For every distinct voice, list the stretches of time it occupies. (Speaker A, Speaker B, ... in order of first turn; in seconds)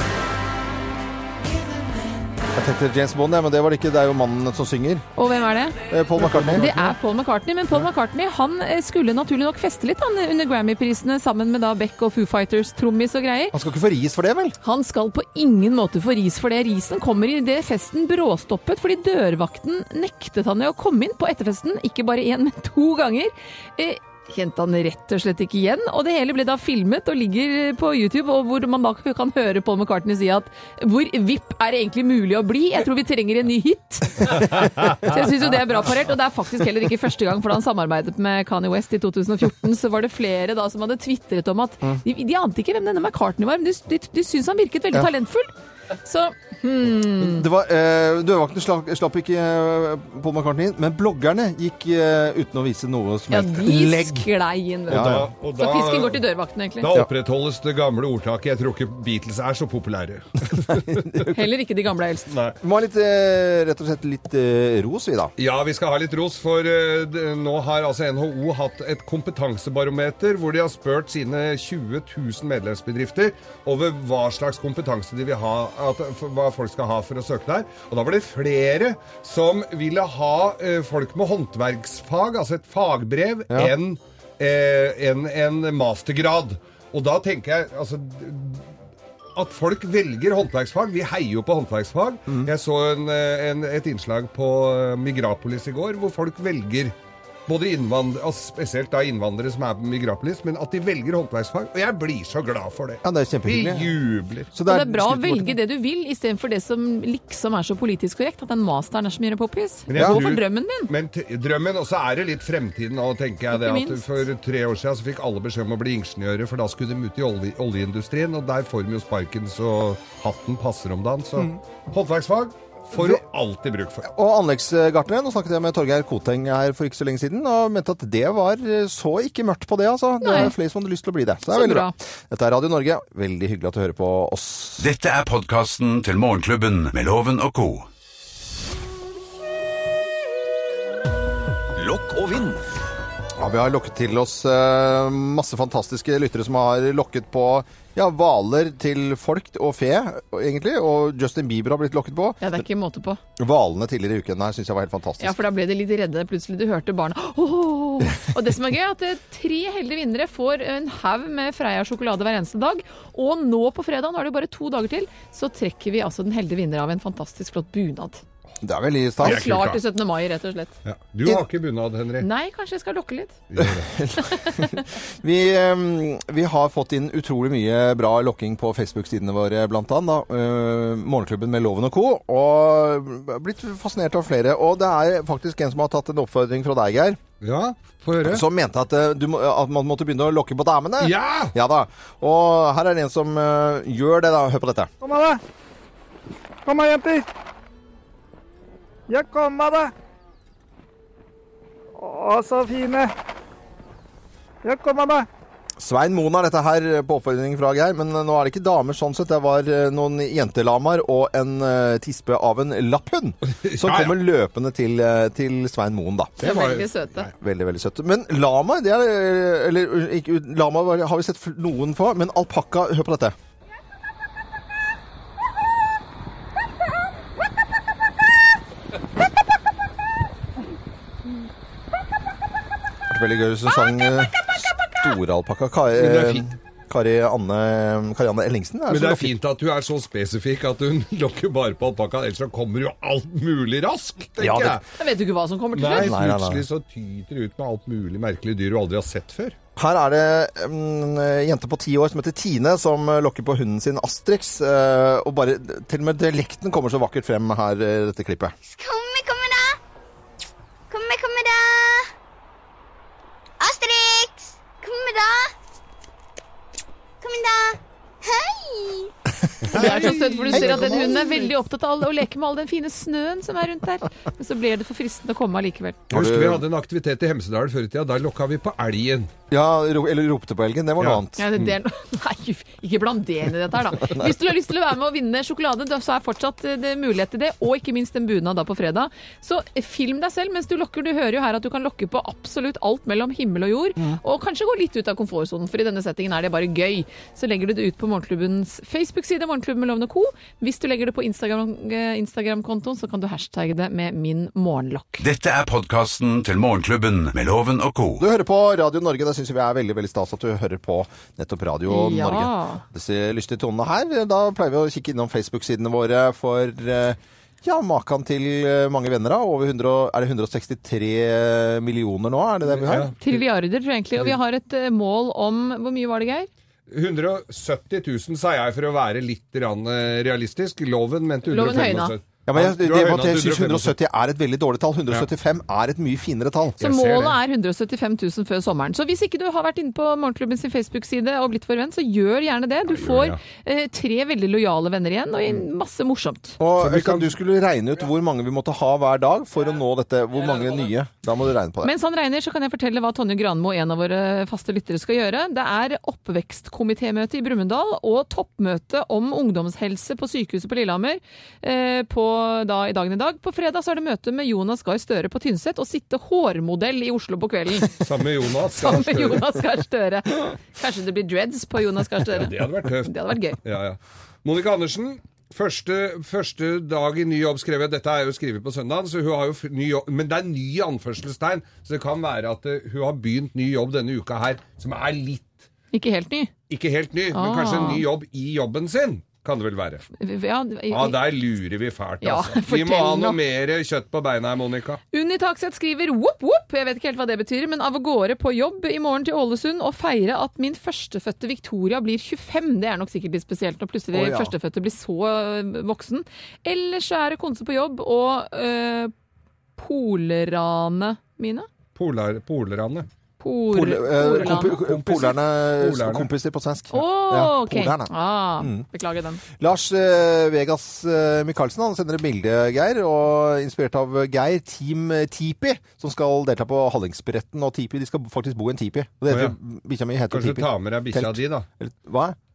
Speaker A: 2.5-5.1, 5.9-6.7, 13.5-14.6, 47.2-54.3, 54.9-55.3, 60.5-61.4, 62.6-65.3, 103.0-103.9, 104.5-105.6, 110.0-110.2, 122.9-123.2, 124.0-134.9, 143.4-152.5, 153.4-155.4, 168.6-169.7, 173.6-187.2, 188.2-194.9, 205.8-216.3, 217.3-223.3, 233.1-239.3, 244.4-244.8, 246.0-246.7, 249.8-258.5, 269.6-271.1, 276.1-276.6, 279.5-281.6, 308.2-323.1, 332.5-336.8, 346.6-351.9, 404.1-404.5, 413.7-418.9, 419.6-432.4
Speaker B: 5.2-13.6, 14.6-45.5, 46.0-47.5, 53.3-56.9, 61.3-62.3, 104.7-110.9, 113.5-114.3, 130.2-130.6, 131.5-131.9, 152.4-153.2, 155.2-168.2, 169.2-170.8, 172.2-173.4, 174.3-174.7, 216.4-217.3, 244.9-246.2, 269.7-276.0, 281.4-305.2, 311.9-312.8, 323.2-326.5, 331.4-332.1, 336.8-346.6, 351.8-368.1, 368.7-373.6, 385.9-386.5, 387.3-388.1, 390.2-391.3, 392.2-393.4, 395.1-409.1, 409.8-411.7, 413.4-414.9, 416.9-419.4
Speaker C: 6.2-6.9, 54.9-56.2, 56.8-61.1, 62.3-62.6, 65.4-88.7, 89.4-97.0, 97.5-104.5, 109.9-124.1, 169.2-169.8, 170.8-172.3, 173.5-173.9, 187.4-188.4, 191.0-191.5, 213.5-214.2, 216.4-217.2, 236.0-236.5, 238.9-244.8, 245.7-249.6, 269.6-271.5, 276.1-279.3, 281.0-281.7, 322.7-323.4, 326.9-333.9, 336.8-337.4, 342.9-343.4, 346.8-347.3, 367.9-369.4, 372.3-385.6, 386.7-390.1, 390.9-395.0, 411.9-413.1, 414.3-416.3, 429.3-429.6, 430.3-431.7
Speaker D: 134.8-137.9, 141.8-142.6, 305.2-308.2
Speaker E: 195.0-195.4, 196.7-197.3, 199.1-199.9, 202.0-203.1, 204.6-205.3
Speaker F: 258.7-259.8, 260.9-262.1, 263.6-265.5, 267.2-269.1